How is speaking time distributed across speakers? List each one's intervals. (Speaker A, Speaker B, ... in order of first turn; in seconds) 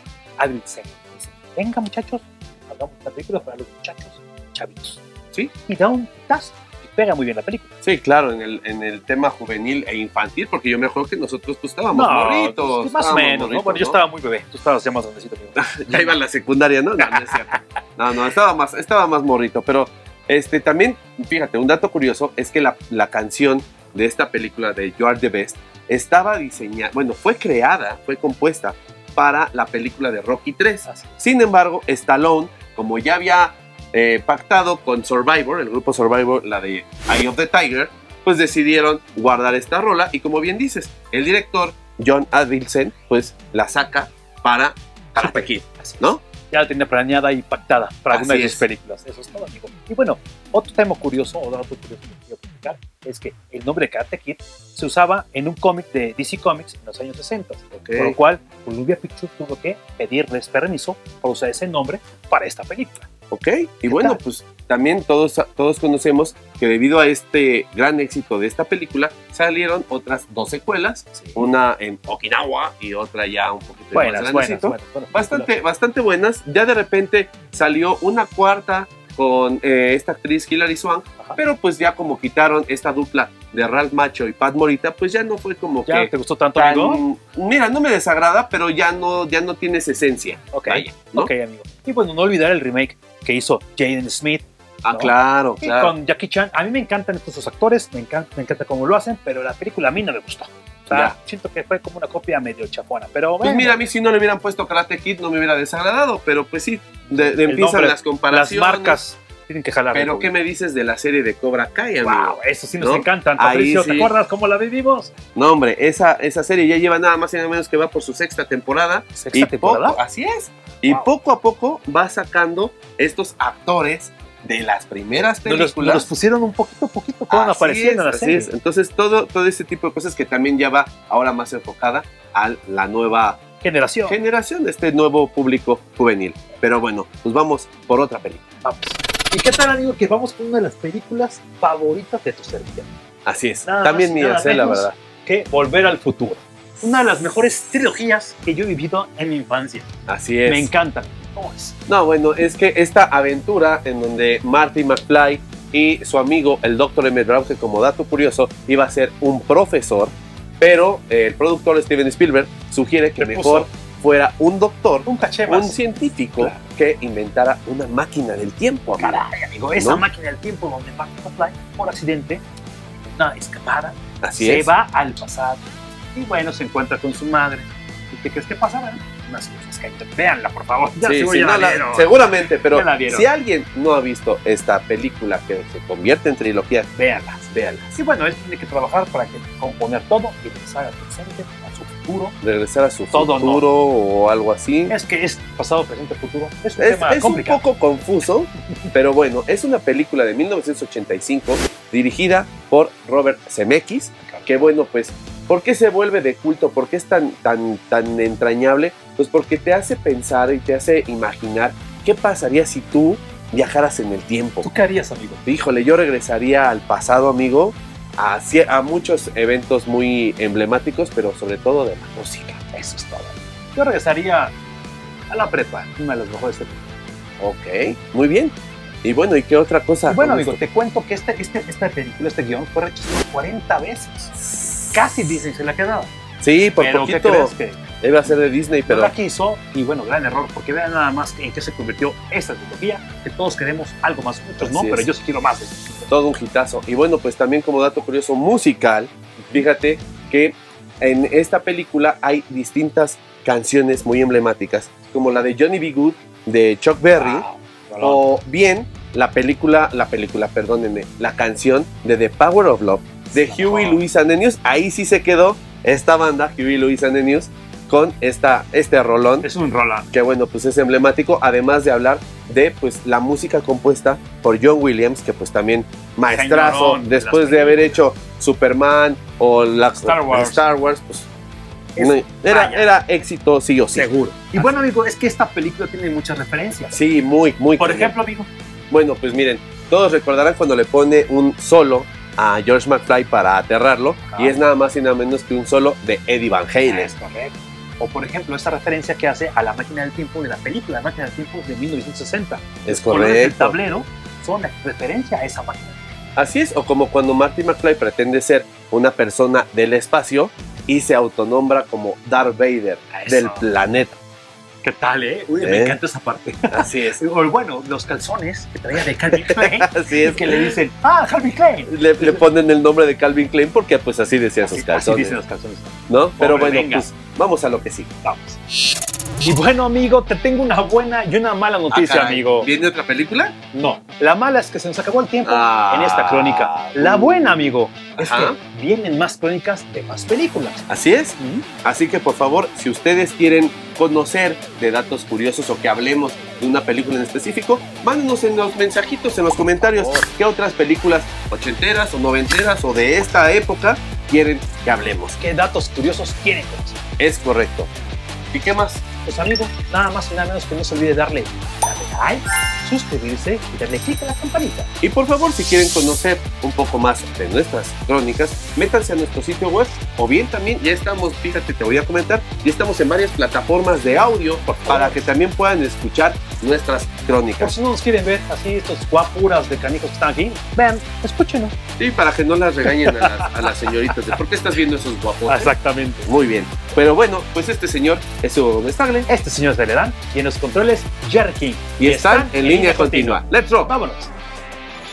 Speaker A: 0.4-5.0, 5.7-7.7, 11.9-16.2, 17.0-17.6, 30.9-31.2, 45.1-63.1, 63.9-64.2, 71.1-71.5, 73.9-75.5, 85.9-87.0, 90.5-103.8, 107.1-110.3, 112.0-115.1, 119.1-120.0, 125.4-128.5, 133.6-134.2, 138.6-142.9, 143.6-149.9, 150.4-151.8, 163.2-163.7, 165.1-165.8, 169.0-172.4, 173.1-182.1, 182.7-183.3, 186.9-192.3, 193.1-193.7, 194.9-197.6, 204.2-204.7, 214.6-215.4, 222.7-224.5, 225.3-226.8, 230.1-234.3, 234.9-236.1, 236.8-246.1, 249.4-249.7, 257.1-258.2, 263.3-264.0, 269.4-270.1, 276.3-278.0, 280.0-280.6, 281.9-282.9, 283.9-287.0, 287.8-288.5, 294.2-294.6, 296.8-306.0, 313.1-313.7, 314.8-322.4, 324.6-327.1, 328.2-328.6, 329.4-332.7, 333.7-340.8, 341.4-341.6, 355.4-357.0, 359.2-364.9, 374.6-375.2, 377.6-381.7, 382.9-384.4, 385.5-386.3, 389.3-394.3
Speaker B: 7.8-14.0, 15.5-46.2, 48.1-48.6, 57.7-58.2, 63.3-91.3, 94.8-95.9, 100.9-101.2, 103.4-109.0, 109.9-114.1, 115.3-126.1, 127.3-133.4, 134.1-138.5, 143.2-144.9, 150.1-150.7, 151.9-169.2, 174.2-174.7, 181.0-186.9, 187.5-187.9, 192.4-194.9, 196.8-214.7, 215.4-222.6, 227.4-230.6, 234.4-235.2, 236.4-239.1, 244.6-245.1, 246.1-257.4, 258.0-269.5, 270.1-281.3, 282.0-284.8, 286.9-288.1, 288.9-297.1, 302.9-303.8, 306.4-314.1, 315.6-316.0, 316.7-317.2, 319.3-320.8, 321.9-325.4, 326.1-328.1, 331.9-333.6, 335.4-338.6, 340.9-355.4, 357.2-357.9, 358.5-359.0, 365.0-377.8, 382.0-385.7, 386.2-389.3, 392.0-393.9